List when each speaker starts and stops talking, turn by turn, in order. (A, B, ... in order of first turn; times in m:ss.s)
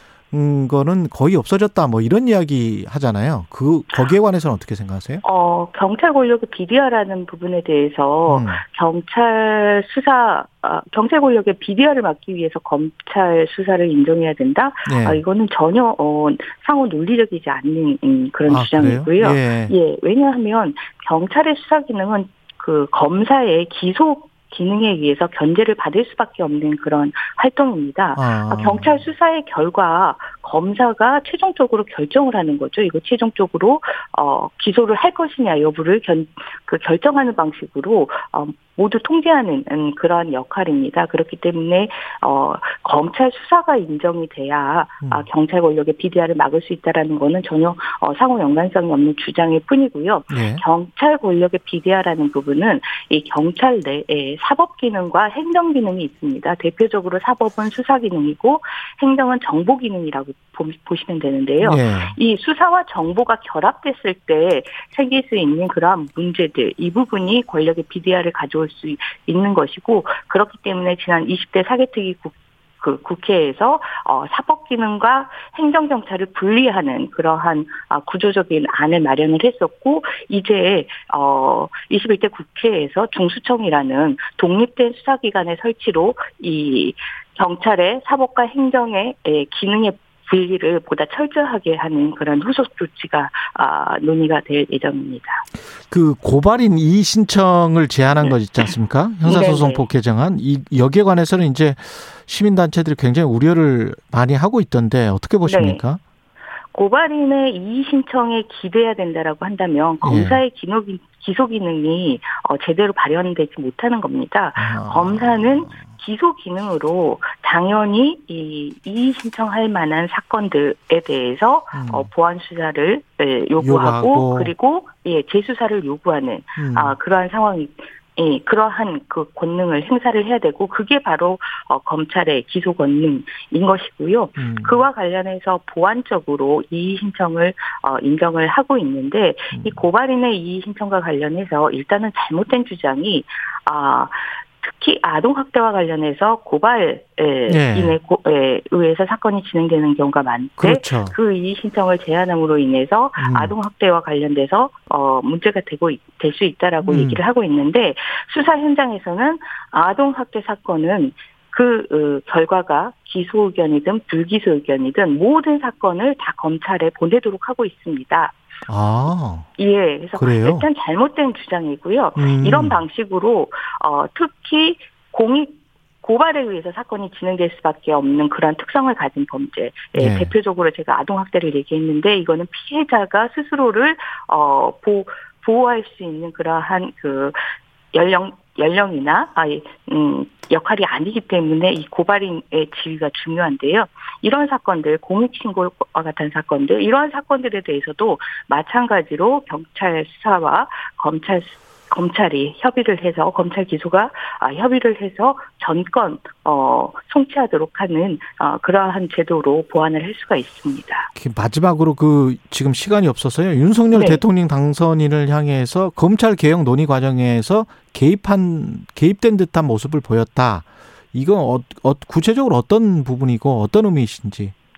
0:00.3-0:05.2 A
0:05.2-1:35.4 B
0:08.3-0:08.6 A
0:14.9-0:15.2 A
0:18.5-0:19.7 A
0:28.2-0:29.0 A
0:50.3-0:50.6 A
1:01.6-1:02.2 A
1:35.9-1:46.0 A
1:39.2-1:39.8 B
1:45.4-1:45.8 B
1:46.7-2:48.3 B
1:50.0-1:50.4 A
1:54.6-1:55.9 A
2:01.7-2:02.1 A
2:03.6-2:04.5 A
2:06.6-2:07.0 A
2:14.4-2:14.8 A
2:19.5-2:19.8 A
2:27.5-2:28.0 A
2:30.6-2:31.2 A
2:33.2-2:33.6 A
2:36.8-2:37.2 A
2:48.7-2:49.5 A
2:49.6-3:07.4 B
2:50.2-2:50.7 A
2:52.2-2:52.8 A
3:00.0-3:00.3 A
3:07.9-3:31.1 B
3:31.2-3:44.5 A
3:33.9-3:34.2 B